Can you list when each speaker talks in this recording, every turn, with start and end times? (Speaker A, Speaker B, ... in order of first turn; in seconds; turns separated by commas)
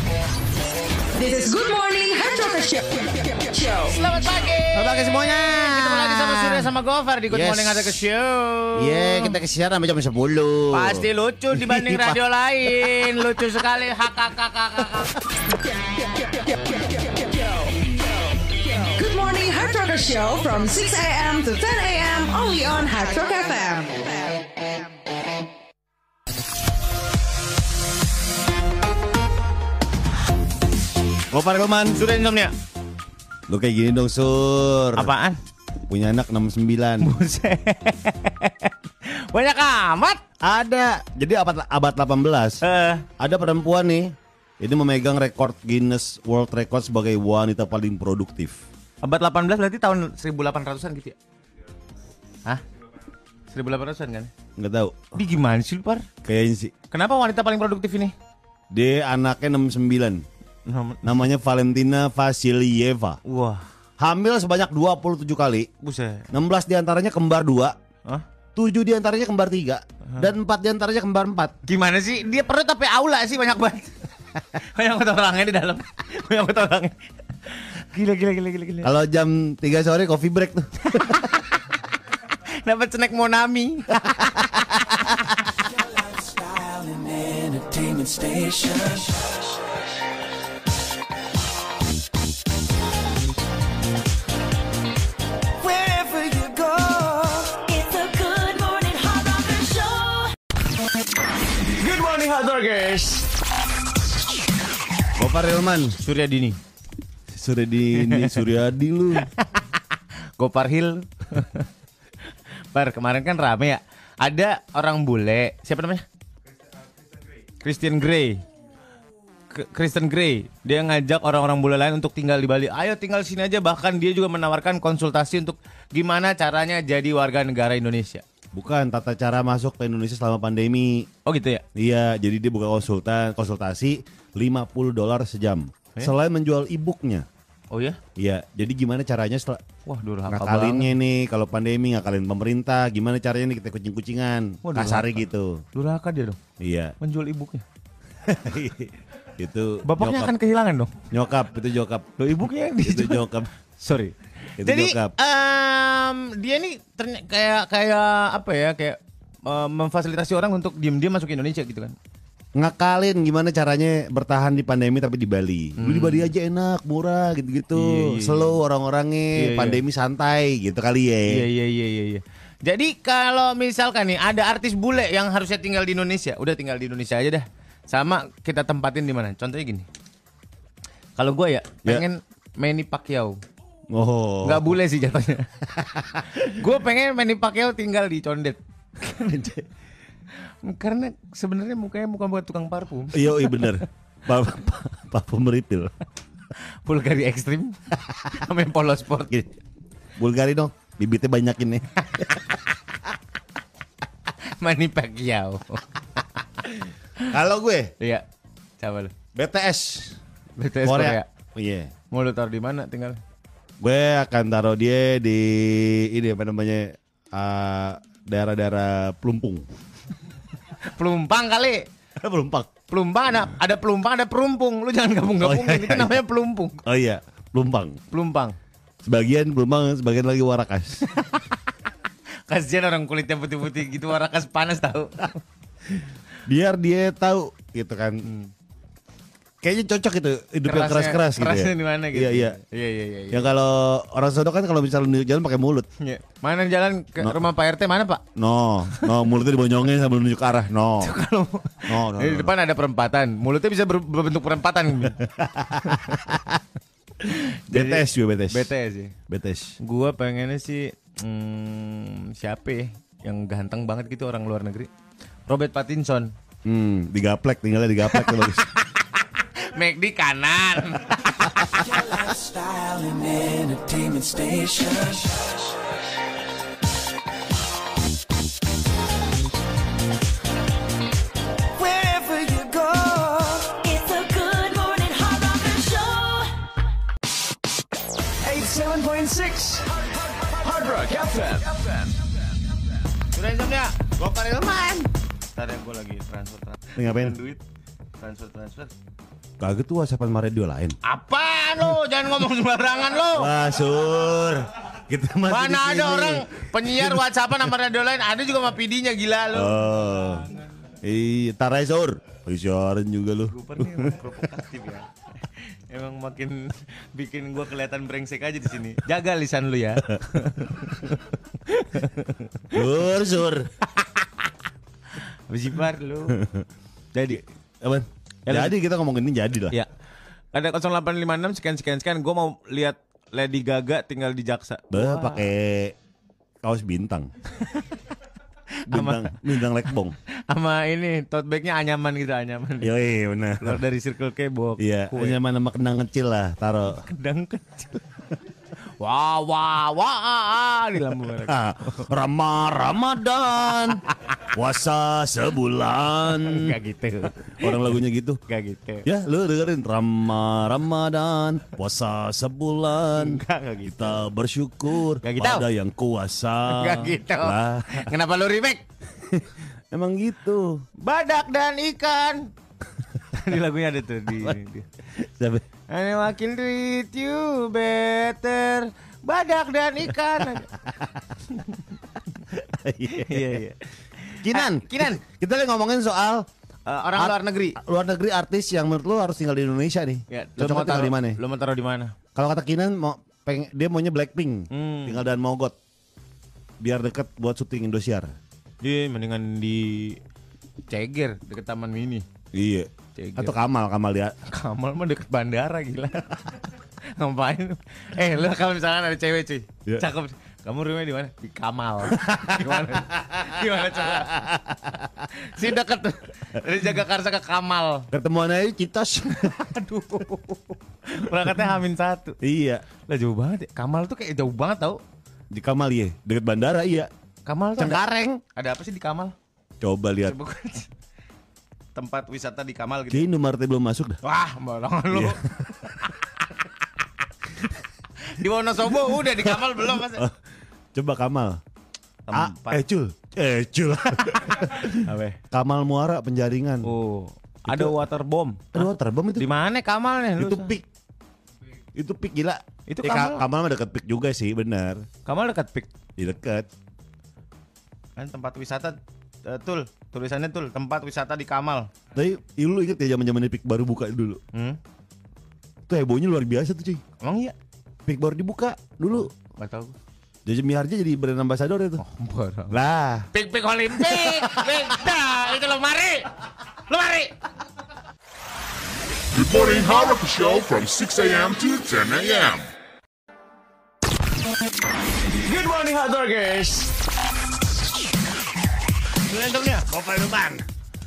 Speaker A: 1.1-4.0, Speaker B: 3.9-9.4, Speaker C: 4.7-6.7, Speaker C: 7.3-8.0, Speaker C: 8.8-12.2, Speaker B: 10.7-15.2, Speaker A: 16.0-17.9, Speaker A: 18.5-24.4, Speaker C: 31.3-32.0, Speaker B: 31.9-32.5, Speaker C: 33.5-35.1, Speaker B: 34.9-35.4, Speaker C: 35.9-37.2, Speaker B: 37.0-40.2, Speaker C: 40.4-42.6, Speaker B: 42.6-43.1, Speaker C: 43.2-48.6, Speaker B: 49.0-51.2, Speaker B: 53.5-54.3, Speaker C: 54.6-55.2, Speaker B: 55.1-56.1, Speaker C: 56.2-56.7, Speaker B: 56.9-58.1, Speaker C: 58.7-60.2, Speaker B: 60.6-61.2, Speaker C: 61.0-63.2, Speaker B: 63.2-63.6, Speaker C: 64.0-65.7, Speaker B: 65.8-66.3, Speaker C: 66.3-67.8, Speaker C: 68.5-71.6, Speaker B: 71.7-78.9, Speaker C: 78.8-81.2, Speaker B: 80.9-81.6, Speaker B: 82.6-85.2, Speaker D: 85.7-89.5, Speaker D: 95.6-97.6, Speaker E: 97.5-100.3, Speaker D: 101.7-103.3, Speaker C: 105.2-106.0, Speaker B: 106.0-106.6, Speaker C: 107.3-109.3, Speaker B: 108.0-108.4, Speaker B: 109.2-109.8, Speaker B: 110.4-111.7, Speaker B: 112.7-116.0, Speaker B: 117.6-118.4, Speaker B: 119.5-128.2, Speaker C: 128.5-131.1, Speaker B: 131.2-131.6, Speaker C: 131.8-137.3, Speaker B: 137.7-138.0, Speaker C: 138.2-139.6, Speaker B: 139.9-140.9, Speaker C: 140.3-145.6, Speaker B: 144.6-146.4, Speaker C: 146.6-146.9, Speaker B: 147.0-147.6, Speaker C: 148.2-150.3, Speaker B: 149.8-151.0, Speaker C: 151.1-152.2, Speaker B: 152.2-162.0, Speaker C: 152.8-153.5, Speaker C: 154.6-155.1, Speaker C: 162.6-171.4, Speaker B: 165.8-166.3, Speaker B: 167.7-168.6, Speaker B: 169.3-169.8, Speaker B: 171.3-179.9, Speaker B: 181.2-183.4, Speaker C: 183.9-184.8, Speaker B: 184.4-189.6, Speaker B: 190.6-193.8, Speaker C: 193.1-195.9, Speaker B: 196.8-199.4, Speaker C: 200.2-201.9, Speaker B: 204.4-207.3, Speaker C: 207.3-207.9, Speaker B: 208.0-208.2, Speaker B: 208.8-209.1, Speaker C: 209.3-210.2, Speaker B: 210.6-211.3, Speaker C: 210.8-211.9, Speaker B: 212.1-213.2, Speaker C: 213.8-219.7, Speaker B: 220.9-221.9, Speaker C: 222.2-222.7, Speaker B: 222.9-226.8, Speaker C: 225.4-226.2, Speaker C: 226.8-228.0, Speaker B: 228.1-228.6, Speaker C: 229.0-231.1, Speaker B: 231.1-231.4, Speaker B: 232.5-235.4, Speaker C: 236.5-238.3, Speaker B: 238.2-238.5, Speaker C: 239.6-242.6, Speaker B: 240.7-243.5, Speaker C: 243.3-245.9, Speaker B: 246.0-248.2, Speaker C: 247.2-247.4, Speaker C: 248.3-251.2, Speaker B: 248.9-249.2, Speaker B: 251.0-255.2, Speaker C: 251.9-252.6, Speaker C: 255.2-256.6, Speaker B: 255.8-256.3, Speaker B: 257.2-259.2, Speaker C: 257.7-258.7, Speaker C: 259.3-259.8, Speaker B: 259.8-264.9, Speaker B: 265.5-266.3, Speaker C: 266.6-268.7, Speaker B: 268.1-272.0, Speaker C: 271.5-271.9, Speaker D: 271.8-275.6, Speaker D: 281.8-283.8, Speaker E: 283.7-286.5, Speaker D: 288.4-291.9, Speaker B: 293.3-294.1, Speaker C: 294.2-295.1, Speaker B: 295.5-297.6, Speaker C: 297.0-297.4, Speaker B: 298.2-298.9, Speaker C: 299.6-301.0, Speaker B: 301.0-303.5, Speaker C: 303.3-307.2, Speaker B: 305.5-310.3, Speaker C: 309.5-310.5, Speaker C: 311.0-314.4, Speaker B: 313.5-322.9, Speaker C: 322.7-323.7, Speaker B: 323.8-324.3, Speaker B: 325.1-326.4, Speaker C: 326.3-326.7, Speaker B: 327.1-327.4, Speaker C: 327.3-329.8, Speaker B: 328.5-328.8, Speaker B: 330.5-335.5, Speaker C: 334.9-335.9, Speaker C: 336.6-337.3, Speaker B: 337.6-338.0, Speaker B: 338.8-339.6, Speaker C: 338.9-340.2, Speaker B: 340.5-342.9, Speaker C: 342.8-343.8, Speaker B: 343.6-345.4, Speaker C: 344.8-347.1, Speaker B: 346.9-348.2, Speaker B: 349.0-352.1, Speaker C: 351.4-356.8, Speaker B: 356.3-358.0, Speaker C: 357.5-358.4, Speaker B: 358.5-359.1, Speaker C: 359.1-368.1, Speaker B: 363.1-364.3, Speaker B: 365.2-365.7, Speaker B: 366.7-368.9, Speaker C: 369.3-370.8, Speaker B: 371.0-372.5, Speaker B: 373.3-374.9, Speaker C: 375.1-375.6, Speaker B: 375.9-380.8, Speaker B: 381.5-381.9, Speaker C: 382.5-383.6, Speaker B: 383.1-385.2, Speaker C: 384.4-386.5, Speaker B: 386.9-387.8, Speaker C: 387.1-391.4, Speaker B: 390.3-392.2, Speaker C: 392.4-395.8, Speaker B: 394.7-395.2, Speaker C: 396.8-398.4, Speaker B: 398.8-400.2, Speaker B: 400.9-402.3, Speaker C: 402.5-404.4, Speaker B: 403.1-403.6, Speaker B: 404.4-406.6, Speaker B: 407.1-414.5, Speaker C: 412.1-415.1, Speaker B: 415.2-418.1, Speaker C: 418.1-419.7, Speaker B: 419.3-422.4, Speaker C: 422.4-422.9, Speaker B: 423.1-425.0, Speaker C: 425.5-427.1, Speaker B: 427.5-429.4, Speaker C: 427.8-428.4, Speaker C: 429.8-430.4, Speaker B: 430.2-430.9, Speaker B: 431.9-433.3, Speaker C: 433.1-434.2, Speaker B: 434.2-436.1, Speaker C: 435.1-435.4, Speaker B: 438.2-440.3, Speaker C: 439.4-440.4, Speaker C: 440.9-441.6, Speaker B: 442.3-442.8, Speaker C: 442.3-446.9, Speaker B: 444.3-445.4, Speaker B: 446.8-450.8, Speaker C: 447.7-448.0, Speaker C: 448.7-449.5, Speaker C: 450.4-450.9, Speaker C: 451.9-455.1, Speaker B: 452.9-453.4, Speaker B: 455.2-455.9, Speaker C: 456.2-456.7, Speaker B: 458.2-461.9, Speaker C: 462.1-464.4, Speaker B: 464.5-464.8, Speaker C: 465.9-467.0, Speaker B: 467.2-467.6, Speaker C: 468.1-469.3, Speaker B: 469.1-470.0, Speaker C: 470.5-472.0, Speaker B: 472.0-472.8, Speaker C: 472.7-473.3, Speaker B: 473.3-476.3, Speaker C: 474.0-474.9, Speaker B: 476.9-477.3, Speaker F: 479.3-482.7, Speaker D: 485.5-486.9, Speaker B: 489.3-489.9, Speaker C: 489.8-490.7